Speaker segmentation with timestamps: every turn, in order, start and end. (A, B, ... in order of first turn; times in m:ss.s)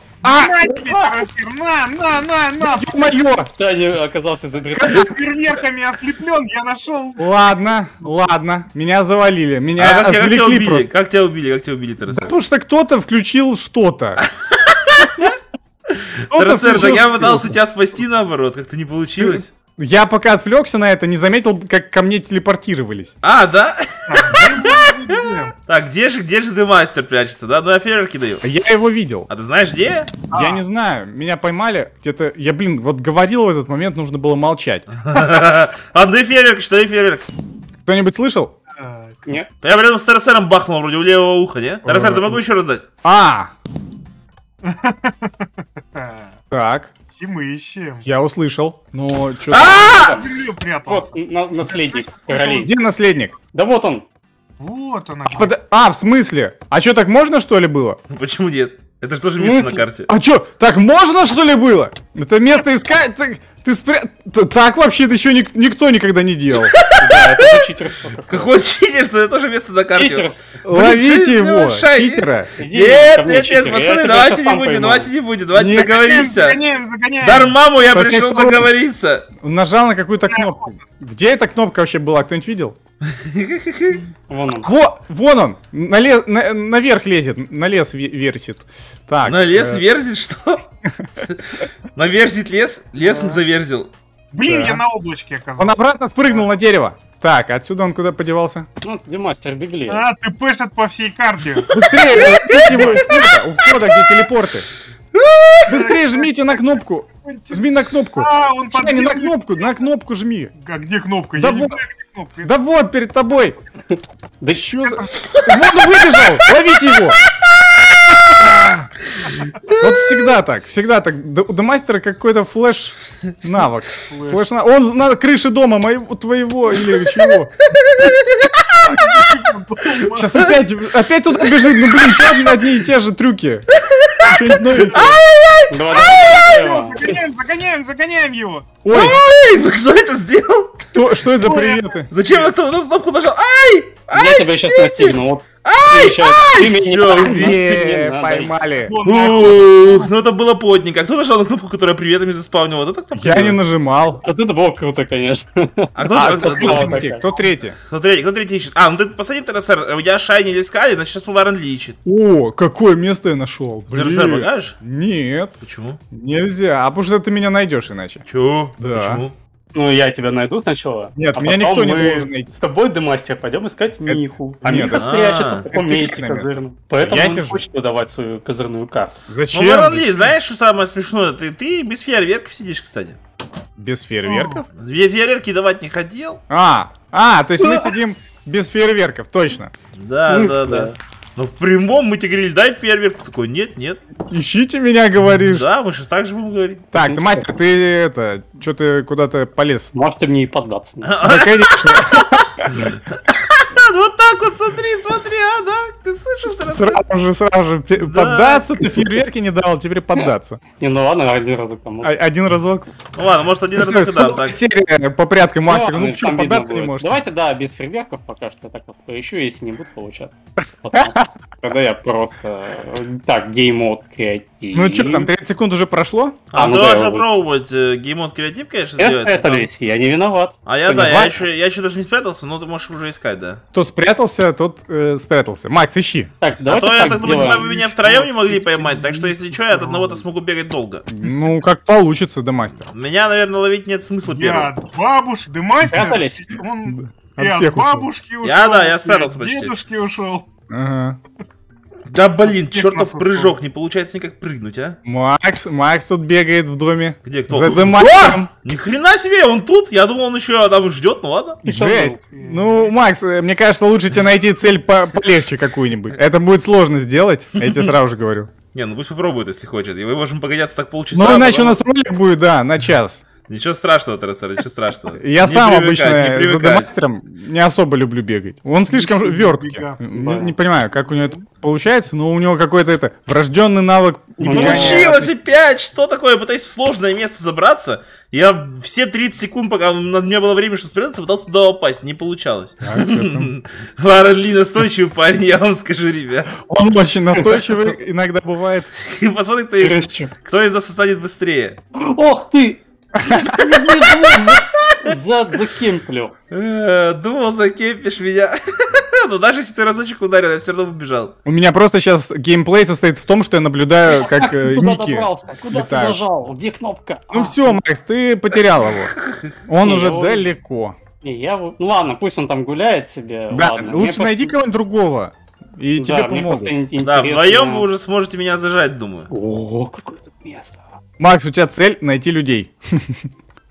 0:00.2-0:01.1 A
0:00.2-0:03.1 B
0:02.6-0:03.5 A
0:03.6-0:05.1 C
0:04.7-0:05.1 A
0:04.9-0:07.5 B
0:07.2-0:10.9 A
0:09.8-0:12.3 D
0:12.1-0:14.2 A
0:14.2-0:15.3 D
0:15.9-0:19.5 D
0:16.3-0:17.6 A
0:19.2-0:23.2 A
0:23.2-0:24.9 D
0:24.1-0:25.5 B
0:25.7-0:28.4 D
0:28.4-0:29.3 A
0:29.3-0:30.1 D
0:30.3-0:30.6 B
0:30.3-0:34.9 A
0:35.0-0:37.2 D
0:37.8-0:38.5 A
0:38.7-0:39.3 B
0:39.6-0:42.8 D
0:41.8-0:42.4 A
0:43.0-0:43.5 A
0:44.6-0:46.3 B
0:46.5-0:46.9 A
0:47.1-0:48.0 B
0:48.0-0:50.0 A
0:49.5-0:50.1 D
0:49.6-0:50.3 C
0:49.8-0:52.7 B
0:50.8-0:52.7 C
0:52.6-0:53.3 A
0:53.5-0:54.0 C
0:54.6-0:55.5 B
0:55.3-0:58.0 A
0:58.1-1:00.1 D
0:59.4-0:59.8 C
1:00.1-1:06.7 A
1:06.6-1:07.6 D
1:06.9-1:08.5 C
1:08.3-1:16.6 D
1:09.9-1:10.4 C
1:10.6-1:12.5 A
1:12.6-1:15.1 C
1:15.5-1:15.9 A
1:15.8-1:17.6 B
1:17.2-1:19.2 D
1:17.8-1:18.7 A
1:19.4-1:22.8 A
1:20.3-1:20.6 B
1:23.0-1:24.0 D
1:24.3-1:24.7 C
1:24.6-1:29.8 A
1:29.2-1:30.6 D
1:31.2-1:33.9 D
1:33.0-1:33.4 B
1:34.3-1:36.5 B
1:34.4-1:34.8 A
1:35.6-1:38.7 A
1:38.8-1:40.1 C
1:39.9-1:43.3 B
1:41.7-1:44.7 A
1:41.8-1:43.0 D
1:45.1-1:45.7 D
1:45.7-1:47.6 B
1:45.7-1:50.5 A
1:48.2-1:49.7 B
1:50.6-1:52.5 B
1:51.4-1:51.8 A
1:52.4-1:53.6 A
1:54.4-1:54.9 C
1:54.5-1:57.2 A
1:54.8-1:55.1 B
1:58.4-1:58.9 A
1:59.2-1:59.8 D
1:59.8-2:07.5 A
2:04.1-2:04.4 B
2:07.7-2:08.8 D
2:08.8-2:10.4 B
2:10.0-2:13.6 A
2:13.8-2:16.5 D
2:14.2-2:15.2 A
2:15.7-2:17.1 C
2:15.9-2:18.8 B
2:18.8-2:19.2 A
2:18.9-2:20.9 D
2:20.9-2:22.1 A
2:21.4-2:22.5 B
2:22.1-2:27.6 D
2:24.1-2:28.5 C
2:27.3-2:28.9 A
2:28.8-2:30.1 B
2:29.0-2:33.6 D
2:33.1-2:34.2 A
2:34.2-2:37.2 C
2:35.9-2:37.1 D
2:36.1-2:37.8 A
2:37.8-2:42.0 D
2:42.0-2:45.5 A
2:43.9-2:44.8 D
2:45.6-2:46.0 D
2:46.1-2:48.2 A
2:48.2-2:49.3 D
2:48.8-2:49.2 A
2:49.7-2:59.2 C
2:51.2-2:52.5 A
2:54.1-2:55.1 A
2:54.8-2:55.7 D
2:55.7-2:57.6 A
2:59.3-3:00.3 A
2:59.5-3:03.2 D
3:03.8-3:04.6 A
3:04.2-3:04.6 B
3:04.7-3:06.4 D
3:06.5-3:09.7 A
3:07.6-3:07.9 C
3:09.9-3:14.0 D
3:10.3-3:10.9 C
3:14.3-3:15.7 A
3:15.5-3:16.8 D
3:16.9-3:19.9 A
3:17.0-3:17.4 C
3:19.9-3:21.1 C
3:21.0-3:27.0 D
3:21.2-3:22.9 A
3:26.7-3:30.6 A
3:28.0-3:29.0 D
3:30.8-3:32.1 C
3:32.0-3:32.9 A
3:33.1-3:34.6 D
3:33.8-3:37.2 A
3:35.7-3:45.3 C
3:40.9-3:41.3 A
3:44.7-3:46.4 A
3:46.5-3:49.7 D
3:46.5-3:47.2 C
3:49.0-3:50.6 C
3:50.6-3:53.6 D
3:50.9-3:51.4 A
3:53.7-3:56.3 A
3:56.4-3:57.8 C
3:56.7-4:01.0 D
3:57.0-4:00.2 B
4:01.1-4:02.8 A
4:02.9-4:04.7 D
4:04.3-4:10.4 B
4:05.8-4:06.6 C
4:06.9-4:08.1 A
4:08.4-4:09.8 D
4:10.7-4:11.2 A
4:12.0-4:15.0 D
4:12.4-4:13.6 B
4:15.0-4:18.5 A
4:17.2-4:21.6 D
4:21.6-4:22.2 C
4:21.6-4:28.5 A
4:22.2-4:22.9 B
4:27.6-4:27.9 D
4:28.7-4:31.8 D
4:31.1-4:33.2 A
4:33.5-4:36.9 D
4:35.1-4:45.3 A
4:38.8-4:40.0 B
4:40.1-4:40.5 C
4:44.4-4:45.1 C
4:44.4-4:56.6 D
4:52.8-4:53.5 A
4:56.6-4:58.9 A
4:59.0-5:01.8 D
4:59.8-5:00.3 C
5:02.0-5:02.8 C
5:03.2-5:03.9 A
5:03.4-5:06.3 C
5:04.4-5:05.1 D
5:06.5-5:11.3 D
5:11.4-5:16.2 A
5:14.1-5:17.8 C
5:17.3-5:19.1 A
5:19.1-5:19.6 D
5:19.6-5:21.0 A
5:19.8-5:20.5 C
5:21.2-5:24.5 C
5:23.5-5:26.7 A
5:26.0-5:27.9 C
5:27.0-5:29.3 D
5:29.3-5:30.8 C
5:31.2-5:33.3 A